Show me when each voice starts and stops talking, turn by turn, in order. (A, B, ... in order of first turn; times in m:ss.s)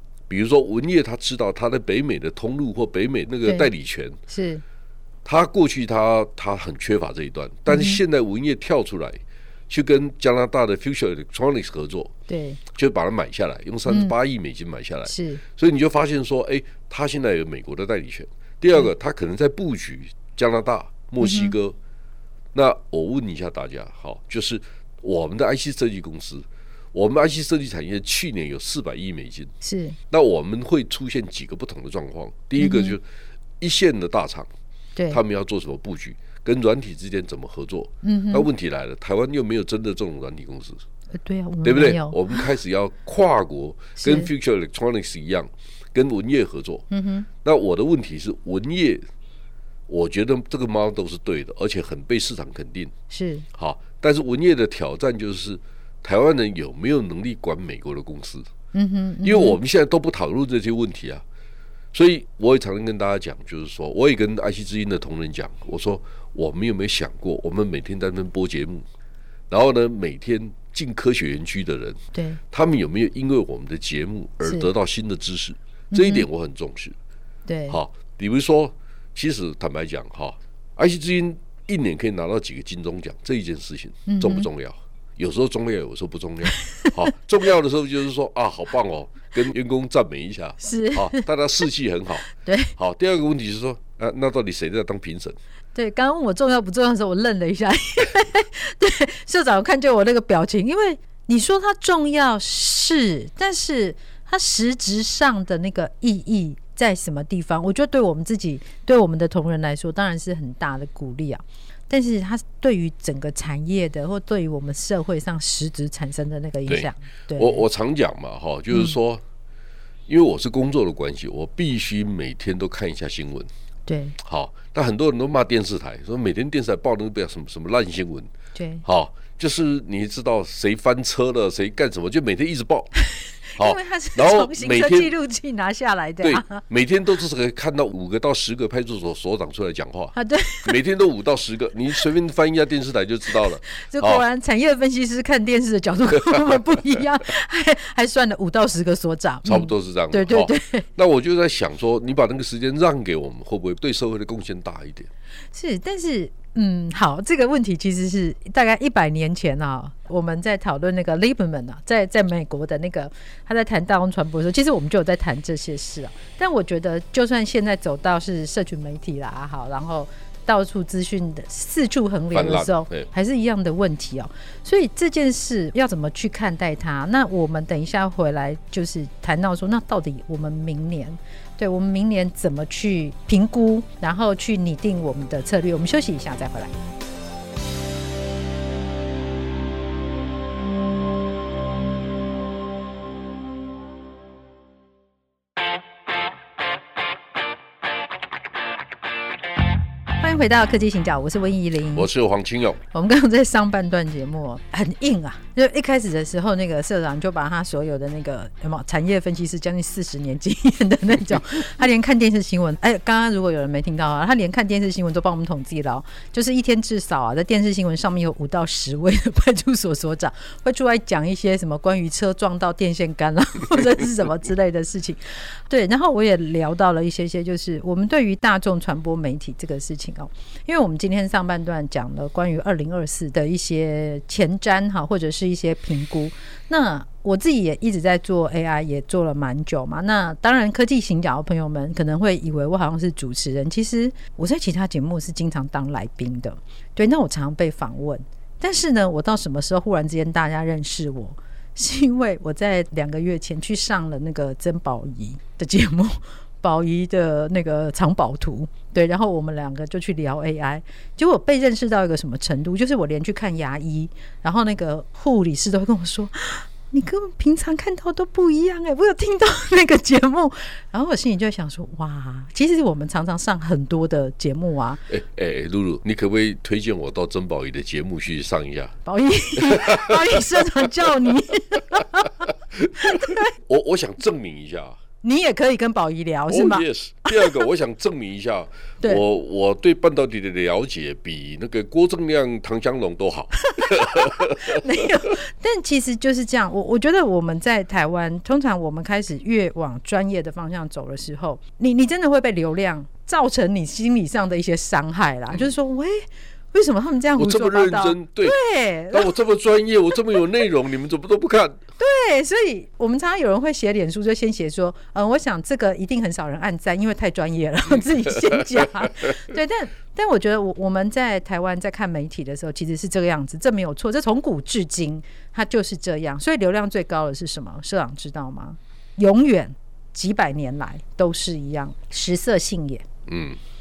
0:00.3-0:04.2 A
0:04.3-0:04.6 B
0:05.2-0:12.1 A
0:07.7-0:08.0 B
0:12.3-0:12.6 B
0:12.7-0:21.8 A
0:13.9-0:14.1 B
0:15.1-0:15.4 B
0:21.2-0:21.5 B
0:22.5-0:29.5 A
0:29.6-0:30.0 B
0:30.1-0:33.0 A
0:32.6-0:33.0 B
0:33.6-0:34.5 A
0:35.0-0:35.2 B
0:35.1-0:40.8 A
0:38.0-0:38.5 B
0:41.2-0:42.5 B
0:41.6-0:46.8 A
0:44.0-0:44.3 B
0:46.9-0:47.3 B
0:47.4-0:49.0 A
0:49.9-0:52.9 A
0:53.1-0:53.4 B
0:53.5-0:58.5 A
0:58.7-0:59.6 B
0:59.2-1:01.2 A
1:01.9-1:08.8 A
1:09.5-1:12.0 A
1:12.1-1:12.4 B
1:12.5-1:17.0 A
1:14.4-1:14.7 B
1:15.9-1:16.2 B
1:17.5-1:17.8 B
1:17.7-1:32.2 A
1:24.1-1:24.5 B
1:26.6-1:26.9 B
1:30.6-1:31.3 B
1:32.2-1:32.7 B
1:32.8-1:35.4 A
1:35.7-1:57.6 B
1:56.7-1:59.2 A
2:00.1-2:03.5 A
2:03.9-2:04.2 B
2:04.2-2:08.3 A
2:08.5-2:08.8 B
2:08.8-2:12.9 A
2:13.1-2:16.6 B
2:13.6-2:15.1 A
2:16.2-2:24.2 A
2:20.1-2:20.8 B
2:23.7-2:30.9 B
2:26.3-2:26.6 A
2:29.4-2:35.1 A
2:35.5-3:06.7 B
2:52.3-2:53.1 A
3:20.2-3:22.1 B
3:21.9-3:22.8 A
3:22.9-4:35.0 B
4:35.1-4:39.0 A
4:39.0-4:42.4 B
4:39.6-4:40.9 A
4:42.7-4:45.0 A
4:43.0-4:43.5 B
4:45.2-4:47.6 B
4:46.5-4:54.8 A
4:53.7-5:09.3 B
5:07.4-5:08.6 A
5:09.1-5:11.8 A
5:12.0-5:33.0 B
5:17.9-5:19.1 A
5:33.3-5:33.6 A